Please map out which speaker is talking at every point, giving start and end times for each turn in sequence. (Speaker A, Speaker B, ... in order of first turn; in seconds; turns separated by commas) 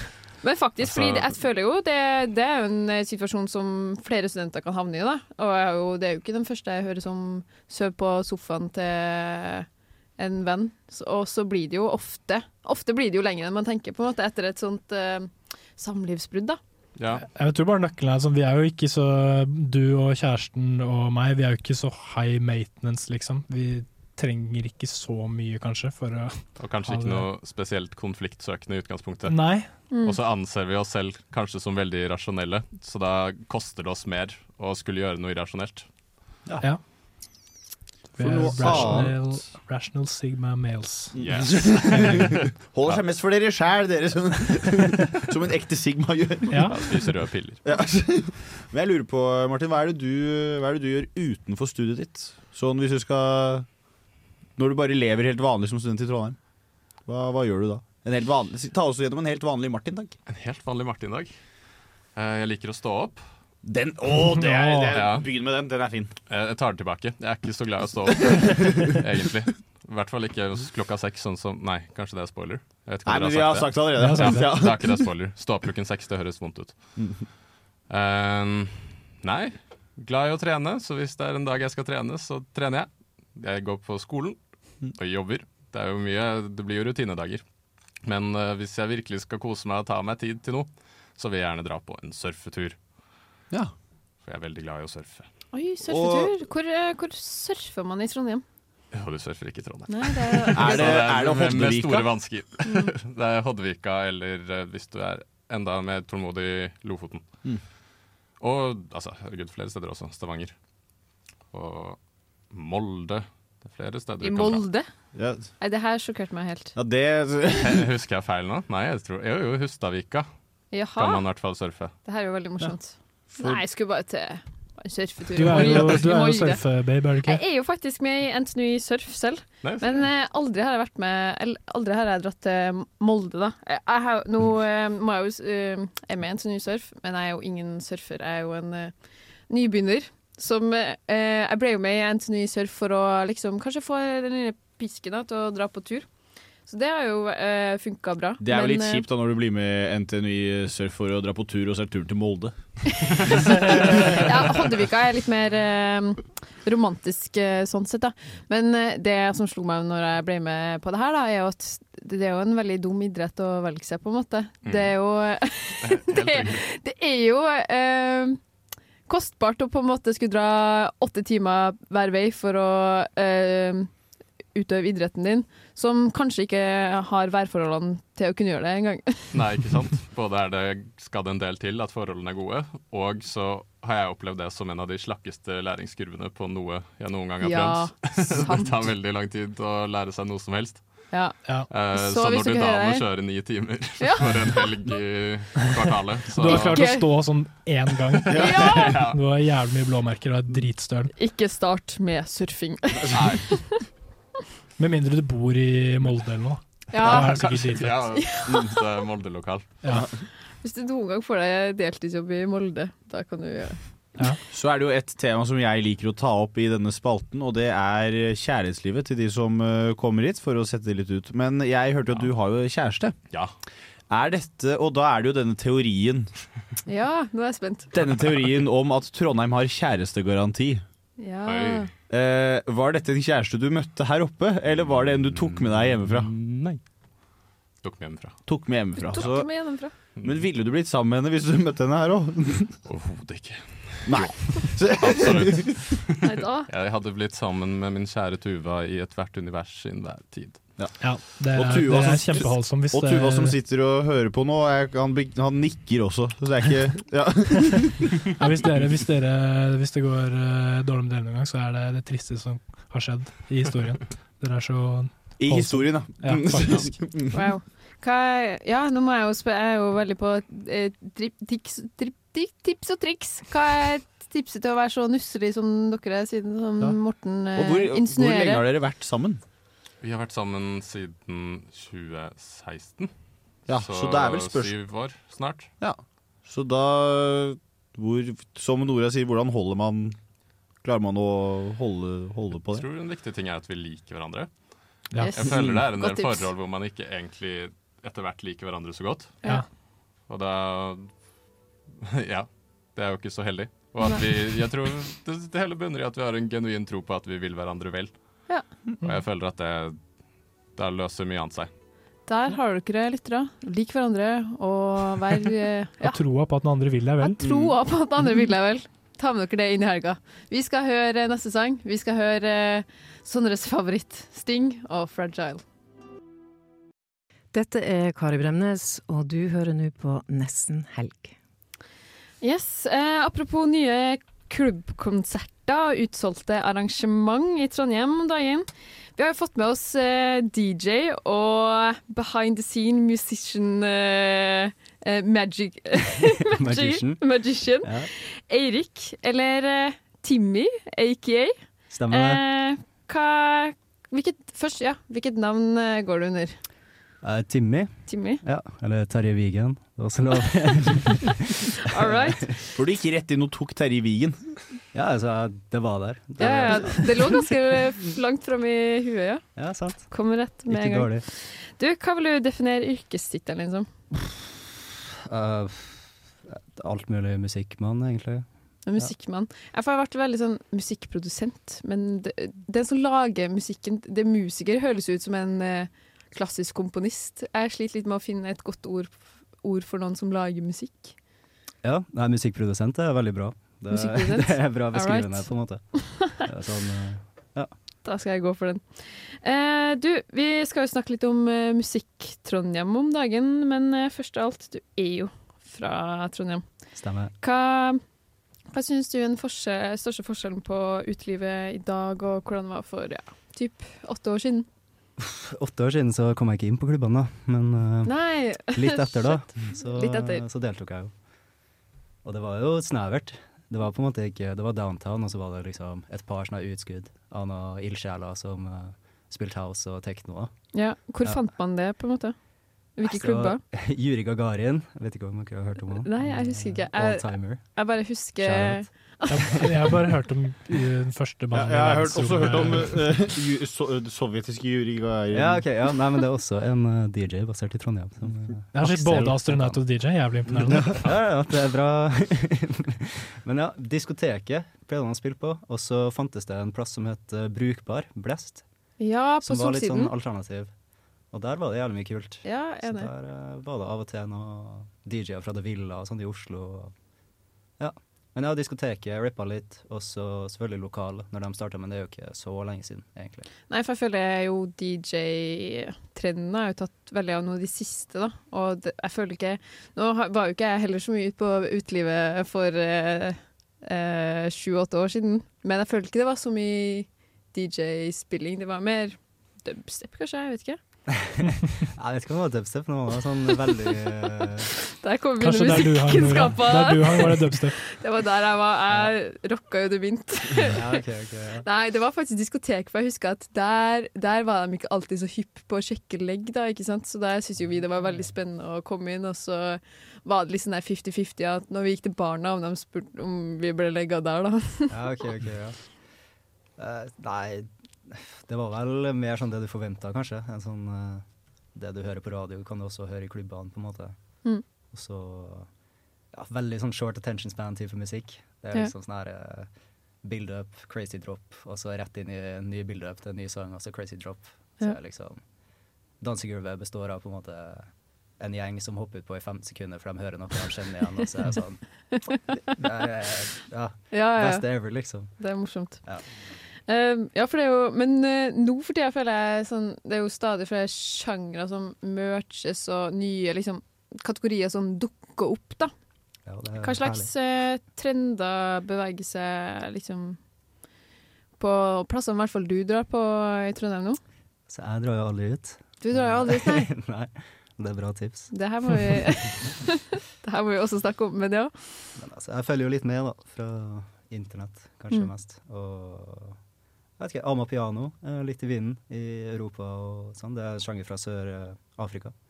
Speaker A: 0.4-9.7, Speaker B: 0.8-1.3, Speaker A: 10.2-16.6, Speaker B: 16.9-17.2, Speaker C: 17.2-27.3, Speaker B: 26.6-29.4, Speaker C: 29.3-29.7, Speaker A: 29.9-30.2, Speaker B: 30.0-35.9, Speaker C: 38.1-42.3, Speaker D: 38.2-39.4, Speaker B: 41.1-43.0, Speaker D: 41.1-47.0, Speaker C: 46.5-46.9, Speaker B: 46.6-47.6, Speaker D: 47.6-53.6, Speaker D: 54.6-56.4, Speaker D: 57.0-60.1, Speaker B: 60.3-61.3, Speaker B: 62.1-63.2, Speaker D: 63.6-66.1, Speaker C: 64.2-65.0, Speaker B: 64.9-65.3, Speaker B: 66.3-76.8, Speaker D: 73.0-75.1, Speaker C: 73.9-74.6, Speaker D: 77.0-77.2, Speaker B: 77.9-84.4, Speaker B: 84.9-87.4, Speaker B: 88.0-92.8, Speaker B: 94.2-95.3, Speaker A: 95.5-98.4, Speaker D: 95.9-96.3, Speaker B: 98.9-107.2, Speaker A: 99.9-101.0, Speaker D: 100.5-102.2, Speaker A: 102.6-102.9, Speaker B: 108.4-110.5, Speaker B: 111.5-112.0, Speaker B: 112.5-114.7, Speaker A: 114.2-114.9, Speaker D: 115.1-115.5, Speaker A: 115.6-116.7, Speaker D: 116.7-117.9, Speaker B: 117.6-120.3, Speaker A: 120.7-121.2, Speaker B: 121.0-121.9, Speaker A: 122.0-126.6, Speaker C: 125.3-127.4, Speaker A: 127.2-138.9, Speaker B: 129.6-130.0, Speaker A: 139.5-146.1, Speaker A: 146.7-149.1, Speaker D: 148.4-152.5, Speaker A: 153.0-168.4, Speaker D: 153.1-154.2, Speaker B: 164.6-164.9, Speaker B: 165.8-166.6, Speaker A: 169.1-173.9, Speaker A: 174.5-179.3, Speaker B: 179.3-190.8, Speaker A: 187.4-188.9, Speaker B: 191.7-196.9, Speaker A: 191.9-193.0, Speaker A: 194.0-194.6, Speaker C: 196.3-201.1, Speaker A: 196.4-197.1, Speaker B: 198.2-199.2, Speaker A: 198.3-199.0, Speaker A: 201.1-203.8, Speaker B: 203.1-203.5, Speaker C: 204.8-208.1, Speaker A: 206.9-207.4, Speaker B: 207.0-209.8, Speaker A: 208.1-208.8, Speaker C: 209.8-210.1, Speaker A: 210.6-213.8, Speaker D: 214.5-223.2, Speaker D: 224.1-226.3, Speaker A: 226.8-227.9, Speaker D: 227.9-230.8, Speaker A: 231.2-231.9, Speaker B: 231.4-231.9, Speaker D: 232.1-236.3, Speaker B: 236.2-236.8, Speaker B: 237.8-238.4, Speaker D: 238.4-239.5, Speaker A: 239.0-239.9, Speaker D: 240.2-242.8, Speaker B: 242.8-250.6, Speaker D: 244.1-245.8, Speaker A: 246.2-246.7, Speaker D: 250.8-258.1, Speaker C: 251.0-253.5, Speaker C: 258.3-267.0, Speaker D: 265.4-267.3, Speaker A: 267.3-278.6, Speaker D: 277.6-279.4, Speaker B: 280.0-283.1, Speaker D: 283.7-284.8, Speaker B: 283.7-285.7, Speaker D: 285.8-290.2, Speaker D: 290.8-292.9, Speaker B: 292.7-294.5, Speaker C: 295.1-295.4, Speaker A: 295.2-296.5, Speaker B: 295.3-299.4, Speaker D: 295.5-295.8, Speaker B: 300.3-301.1, Speaker B: 302.0-308.1, Speaker B: 309.0-310.0, Speaker B: 310.8-311.7, Speaker A: 312.3-316.2, Speaker C: 316.0-317.4, Speaker A: 317.2-325.6, Speaker D: 317.4-317.7, Speaker E: 327.5-331.3, Speaker A: 332.4-351.5, Speaker F: 346.5-347.2, Speaker F: 347.8-348.1, Speaker F: 351.9-352.4, Speaker A: 352.1-356.6, Speaker F: 357.2-362.6, Speaker A: 358.1-358.4, Speaker A: 361.8-362.8, Speaker D: 362.7-364.5, Speaker F: 364.9-367.5, Speaker A: 366.4-369.4, Speaker F: 369.6-370.1, Speaker A: 370.1-373.9, Speaker F: 370.7-371.2, Speaker F: 375.2-378.4, Speaker A: 378.9-391.1, Speaker F: 391.8-395.8, Speaker A: 393.9-396.4, Speaker F: 396.3-397.7, Speaker A: 398.0-406.6, Speaker F: 406.9-407.3, Speaker A: 407.4-408.0, Speaker A: 408.7-414.7, Speaker F: 415.2-421.1, Speaker A: 418.0-420.4, Speaker F: 422.2-430.5, Speaker A: 430.7-432.4, Speaker A: 433.0-433.6, Speaker F: 433.0-437.8, Speaker A: 435.9-439.7, Speaker F: 438.4-439.2, Speaker C: 439.3-443.1, Speaker D: 441.5-445.6, Speaker F: 445.3-449.9, Speaker C: 448.7-451.0, Speaker F: 450.5-458.6, Speaker A: 459.0-460.1, Speaker F: 459.4-460.7, Speaker F: 461.3-466.9, Speaker A: 462.4-463.1, Speaker F: 467.8-473.4, Speaker A: 473.7-490.8, Speaker F: 491.1-494.7, Speaker A: 494.8-501.0, Speaker C: 495.4-497.8, Speaker F: 500.6-501.6, Speaker A: 501.6-515.3, Speaker F: 507.6-508.3, Speaker F: 514.9-515.8, Speaker F: 516.8-521.2, Speaker F: 521.7-524.1, Speaker F: 524.9-525.7, Speaker F: 526.3-529.7, Speaker F: 530.2-535.4, Speaker F: 536.2-537.9, Speaker F: 538.4-541.8, Speaker A: 542.1-542.4, Speaker F: 542.7-545.3, Speaker A: 544.1-544.7, Speaker A: 545.4-546.0, Speaker A: 546.9-555.9, Speaker F: 556.5-557.3, Speaker A: 556.8-560.4, Speaker A: 561.6-564.2, Speaker F: 564.7-568.5, Speaker A: 566.0-566.9, Speaker A: 568.5-571.7, Speaker F: 572.1-576.6, Speaker F: 577.2-582.3